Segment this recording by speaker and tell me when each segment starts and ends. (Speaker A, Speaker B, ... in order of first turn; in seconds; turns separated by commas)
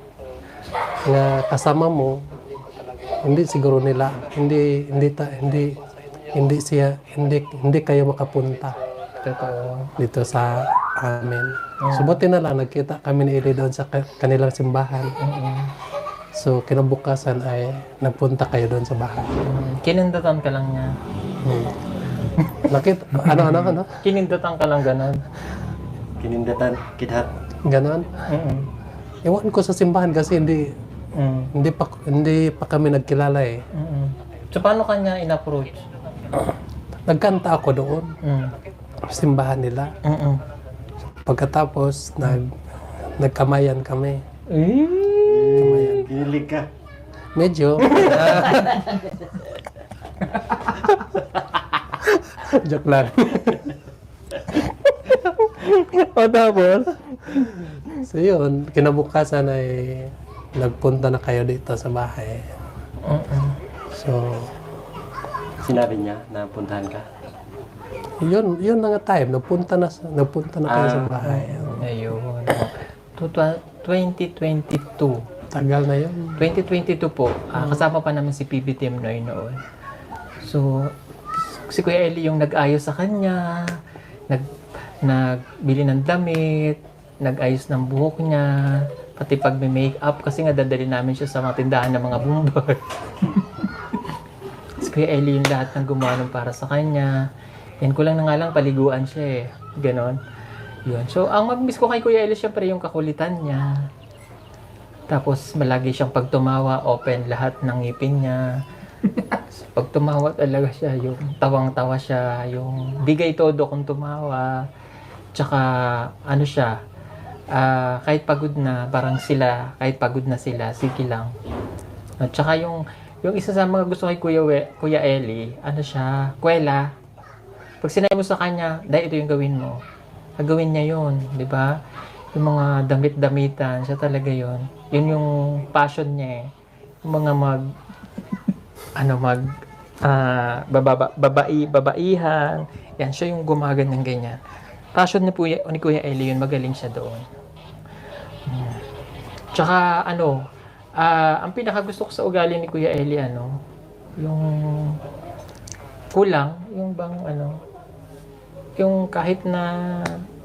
Speaker A: 1.0-2.1, Speaker A: 3.2-5.8, Speaker A: 6.3-8.8, Speaker B: 9.2-9.9, Speaker A: 10.0-15.1, Speaker B: 11.8-12.2, Speaker B: 15.2-15.7, Speaker A: 16.4-19.3, Speaker B: 19.4-20.9, Speaker A: 21.4-21.8, Speaker A: 22.7-23.9, Speaker B: 23.2-25.2, Speaker C: 26.2-27.3, Speaker A: 27.6-28.2, Speaker B: 28.3-28.7, Speaker A: 29.2-30.6, Speaker B: 31.1-31.5, Speaker A: 31.5-33.6, Speaker B: 33.8-35.9, Speaker A: 37.1-38.1, Speaker B: 38.2-38.5, Speaker A: 39.0-39.9, Speaker B: 40.0-40.4, Speaker A: 41.2-42.5, Speaker A: 43.2-44.2, Speaker B: 44.5-45.9, Speaker C: 45.2-46.7, Speaker A: 45.6-46.0, Speaker A: 47.4-48.8, Speaker B: 47.9-48.7, Speaker C: 48.2-49.0, Speaker A: 52.0-53.7, Speaker B: 54.5-58.0, Speaker A: 58.0-62.5, Speaker B: 63.0-63.6, Speaker A: 63.9-64.5, Speaker C: 65.6-67.0, Speaker A: 68.2-71.9, Speaker C: 70.7-71.4, Speaker B: 71.4-75.2, Speaker A: 75.5-76.5, Speaker B: 76.4-79.6, Speaker A: 77.5-77.9, Speaker B: 80.4-83.4, Speaker B: 85.0-88.5, Speaker B: 89.2-93.4, Speaker B: 94.8-97.1, Speaker B: 97.8-100.2, Speaker B: 100.9-103.7, Speaker B: 105.1-108.4, Speaker B: 109.4-114.5, Speaker B: 115.4-116.7, Speaker B: 117.5-121.3, Speaker B: 122.2-126.9, Speaker B: 127.8-129.8, Speaker B: 130.4-131.7, Speaker B: 132.3-136.5, Speaker B: 137.0-137.6, Speaker B: 139.0-139.4, Speaker B: 140.0-144.4, Speaker B: 144.9-147.2, Speaker B: 148.5-148.8, Speaker B: 149.5-150.4, Speaker B: 151.0-153.5, Speaker B: 154.2-155.0, Speaker B: 156.1-157.6, Speaker B: 158.8-159.7